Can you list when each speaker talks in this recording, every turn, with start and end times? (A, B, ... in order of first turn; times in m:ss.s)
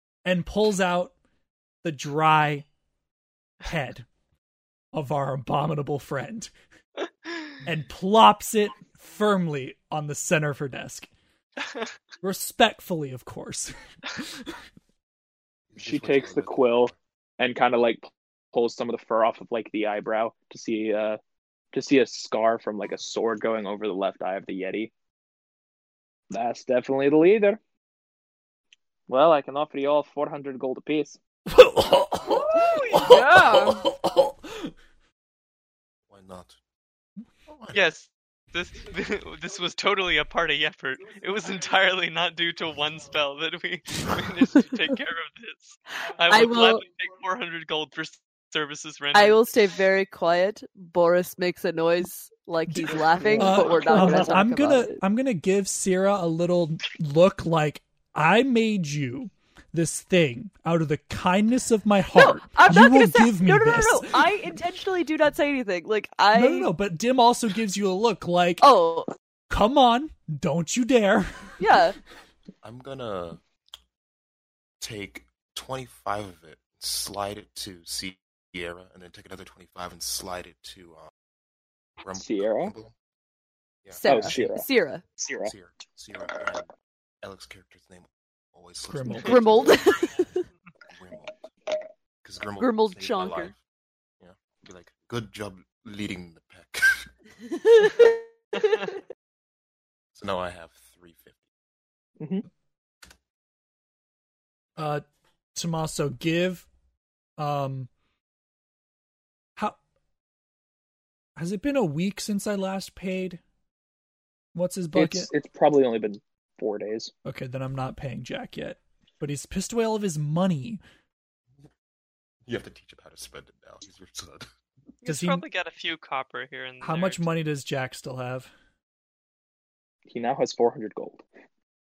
0:00.2-0:01.1 A
0:01.8-0:02.7 A
0:03.6-0:04.1 A
0:04.9-0:06.5 A
0:07.2-0:07.5 B
0:07.6-0:11.1 A
0:11.6-0:11.9 B
0:12.2-0:14.6 A
0:15.7-0:17.0 C
0:15.8-0:21.2 D
0:21.7-0:24.9 D
0:26.3-0:27.6 D
0:29.1-0:31.2 D
0:31.5-0:34.7 A
0:32.6-0:33.2 B
0:32.9-0:33.8 E
0:36.1-0:36.6 C
0:37.5-0:37.8 C
0:37.7-0:49.4 B
0:46.3-0:46.8 E
0:49.1-0:55.0 E
0:52.7-1:04.4 A
0:53.2-0:54.2 D
0:53.2-0:53.8 B
1:02.1-1:06.7 E
1:06.3-1:08.7 A
1:08.6-1:09.1 E
1:09.5-1:11.6 A
1:11.6-1:12.0 E
1:12.6-1:13.4 C
1:14.8-1:21.1 C
1:22.0-1:22.9 C
1:22.2-1:22.7 D
1:23.9-1:25.0 E
1:24.0-1:24.7 D
1:25.2-1:25.5 D
1:25.4-1:26.7 C
1:27.2-1:29.8 C
1:28.9-1:29.4 A
1:29.2-1:30.4 E
1:30.9-1:31.4 C
1:32.2-1:33.6 C
1:32.6-1:33.5 E
1:34.2-1:37.1 C
1:37.4-1:38.9 E
1:38.6-1:38.8 B
1:40.1-1:41.4 C
1:42.2-1:42.5 D
1:44.8-1:45.0 A
1:45.5-1:46.7 A
1:47.4-1:47.9 A
1:51.4-1:53.4 A
1:54.5-1:55.3 A
1:54.9-1:57.1 D
1:57.2-2:00.8 A
2:02.4-2:04.5 C
2:05.0-2:07.3 B
2:05.0-2:05.4 A
2:06.8-2:08.5 A
2:10.1-2:11.2 D